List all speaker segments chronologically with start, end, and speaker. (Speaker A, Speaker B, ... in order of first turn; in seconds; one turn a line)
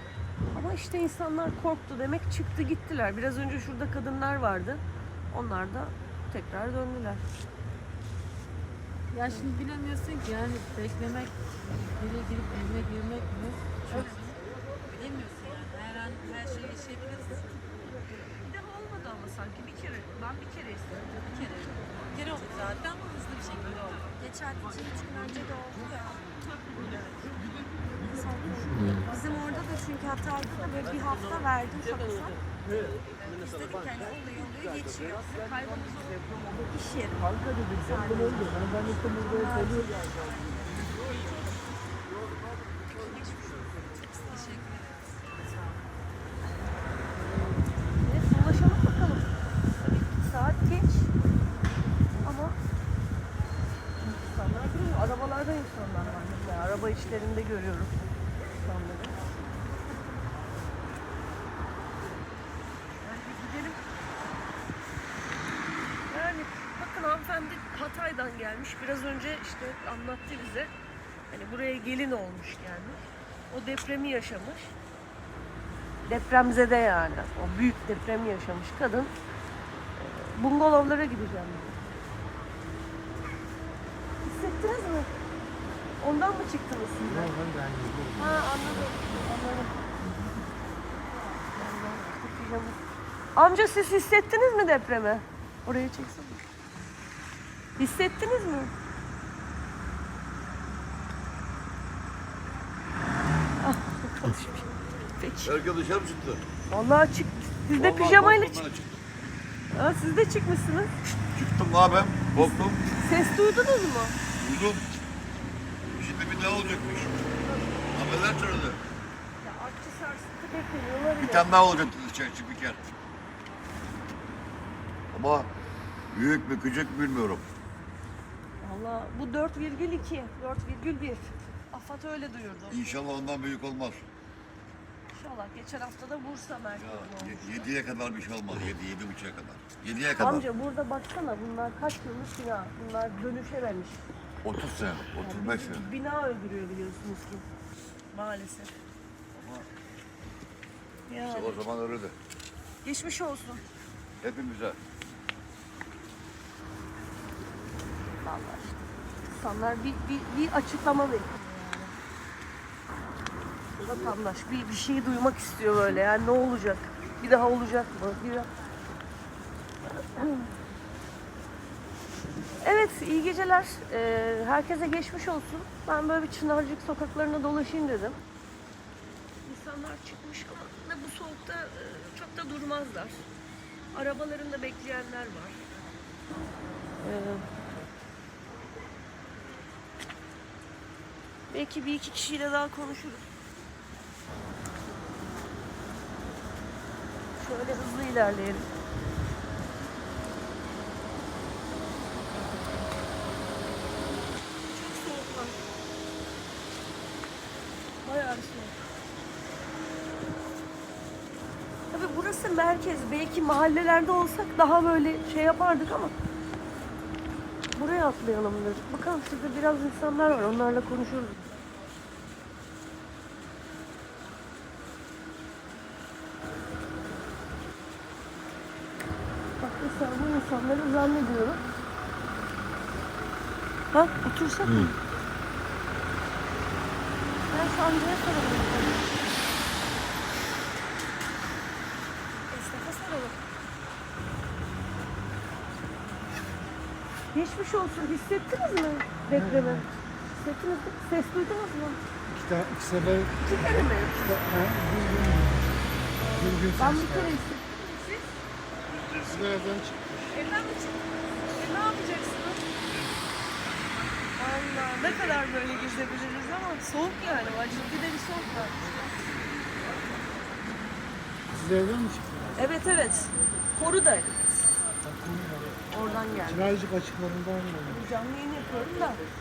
Speaker A: 0.5-7.2
Speaker B: 9.1-14.4
Speaker A: 13.9-14.3
Speaker B: 14.9-17.7
Speaker A: 18.3-21.2
Speaker B: 21.2-24.6
Speaker C: 24.2-26.3
Speaker C: 28.0-32.5
Speaker A: 33.2-33.5
Speaker C: 33.5-35.3
Speaker A: 35.2-36.3
Speaker C: 36.6-40.1
Speaker B: 39.4-41.4
Speaker A: 42.9-44.6
Speaker B: 44.1-46.7
Speaker A: 48.0-49.3
Speaker A: 49.8-51.1
Speaker A: 52.2-52.6
Speaker A: 54.0-57.9
Speaker A: 58.5-59.2
Speaker A: 63.0-63.8
Speaker A: 66.1-70.7
Speaker A: 71.3-74.7
Speaker A: 76.1-79.1
Speaker A: 80.0-81.7
Speaker A: 84.2-85.1
Speaker A: 86.0-87.3
Speaker A: 88.2-89.7
Speaker A: 91.3-92.8
Speaker A: 93.3-96.4
Speaker A: 97.8-98.7
Speaker A: 103.6-104.7
Speaker A: 105.2-105.5
Speaker D: 105.5-106.4
Speaker A: 106.7-108.7
Speaker D: 107.7-109.0
Speaker A: 109.7-110.9
Speaker D: 111.3-112.8
Speaker A: 113.0-114.2
Speaker D: 114.4-114.9
Speaker D: 116.0-117.3
Speaker A: 117.4-117.8
Speaker D: 117.9-118.8
Speaker A: 119.4-121.5
Speaker D: 121.2-122.9
Speaker D: 125.1-125.5
Speaker D: 126.1-127.5
Speaker A: 128.6-132.8
Speaker D: 132.7-134.1
Speaker A: 135.1-137.7
Speaker D: 136.8-140.5
Speaker A: 140.2-144.0
Speaker D: 144.4-145.9
Speaker A: 145.2-147.4
Speaker A: 148.1-148.7
Speaker D: 149.3-149.7
Speaker A: 151.1-151.7
Speaker D: 151.2-152.2
Speaker A: 152.8-153.6
Speaker D: 154.2-154.8
Speaker A: 158.2-161.9
Speaker A: 163.8-168.5
Speaker A: 170.1-170.5
Speaker A: 172.6-178.2
Speaker A: 179.4-183.3
Speaker A: 183.9-185.6
Speaker A: 187.0-187.4
Speaker A: 191.5-193.3
Speaker A: 197.4-198.7
Speaker B: 202.4-202.7
Speaker A: 204.7-205.6
Speaker A: 208.0-208.8
Speaker A: 211.9-216.1
Speaker A: 217.8-221.4
Speaker A: 229.6-231.6
Speaker A: 233.9-234.9
Speaker A: 237.5-239.2
Speaker A: 242.5-243.4
Speaker A: 247.3-252.0
Speaker E: 249.3-249.9
Speaker E: 252.3-257.4
Speaker A: 253.4-254.5
Speaker A: 256.2-258.3
Speaker C: 256.8-257.5
Speaker D: 258.9-259.8
Speaker E: 259.4-260.2
Speaker A: 260.3-261.0
Speaker C: 261.6-262.7
Speaker A: 261.8-262.0
Speaker A: 264.3-268.9
Speaker D: 265.3-266.1
Speaker E: 271.5-272.6
Speaker A: 272.6-274.5
Speaker E: 275.0-275.8
Speaker A: 275.9-276.8
Speaker E: 276.5-278.1
Speaker A: 277.9-279.2